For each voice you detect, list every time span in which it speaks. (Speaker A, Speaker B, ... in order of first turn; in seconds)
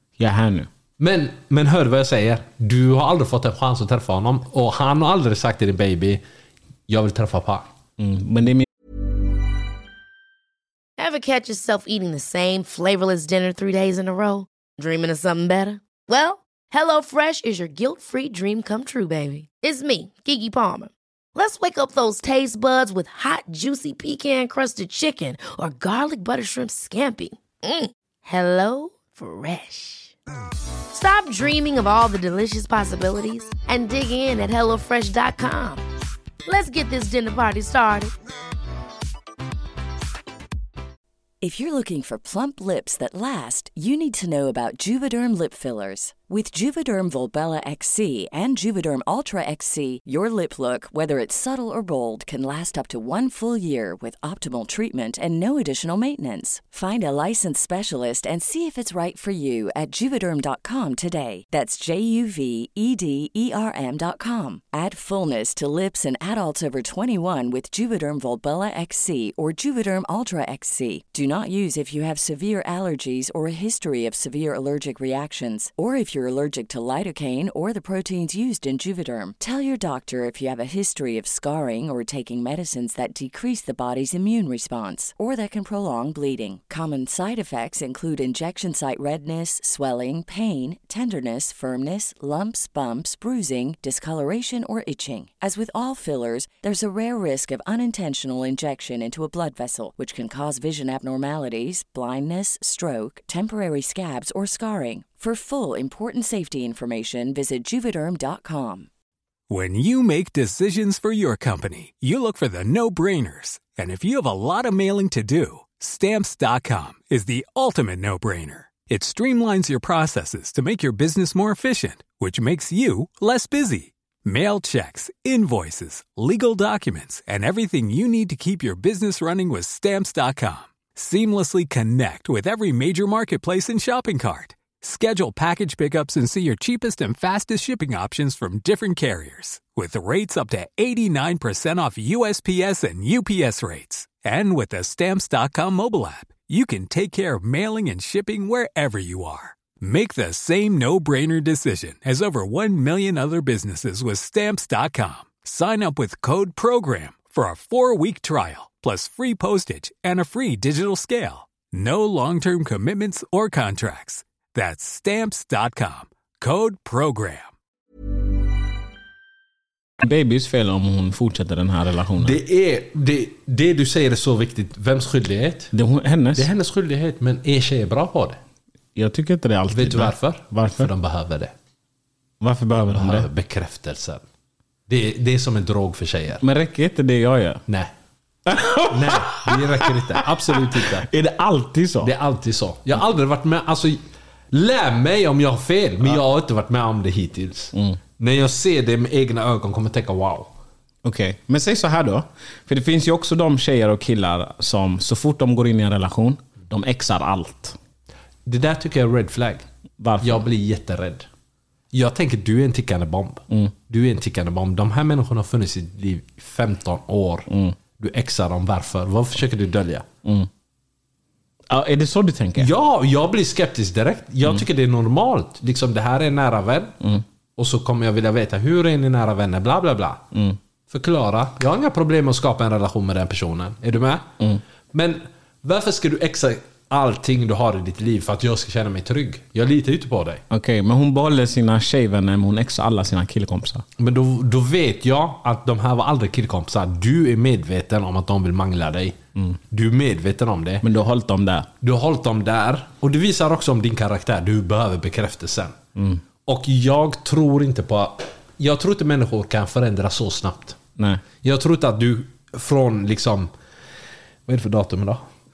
Speaker A: 0.2-0.7, 8.0-8.7, 170.0-172.4, 175.7-176.5, 179.0-180.9, 182.4-183.3, 186.4-187.6, 188.5-192.1, 201.0-207.8, 210.0-210.4, 217.5-217.8, 221.7-222.7, 230.3-230.6, 240.5-243.8, 250.8-251.7, 256.0-256.2, 261.0-261.2
Speaker B: 1.0-6.2, 6.9-7.7, 172.2-175.7, 176.4-178.4, 179.7-181.5, 182.9-184.2, 184.9-186.4, 188.9-191.1, 192.0-194.0, 194.5-200.5, 208.5-209.7, 210.2-211.3, 211.9-217.5, 218.0-220.1, 222.6-227.0, 227.6-230.2, 230.9-234.3, 234.9-240.4, 244.0-249.2, 249.7-250.8, 251.8-255.8, 256.5-260.8, 261.4-263.5, 264.5-265.2
Speaker C: 11.0-30.1, 30.9-35.8, 36.5-38.1
Speaker D: 41.4-108.9
Speaker E: 109.5-167.5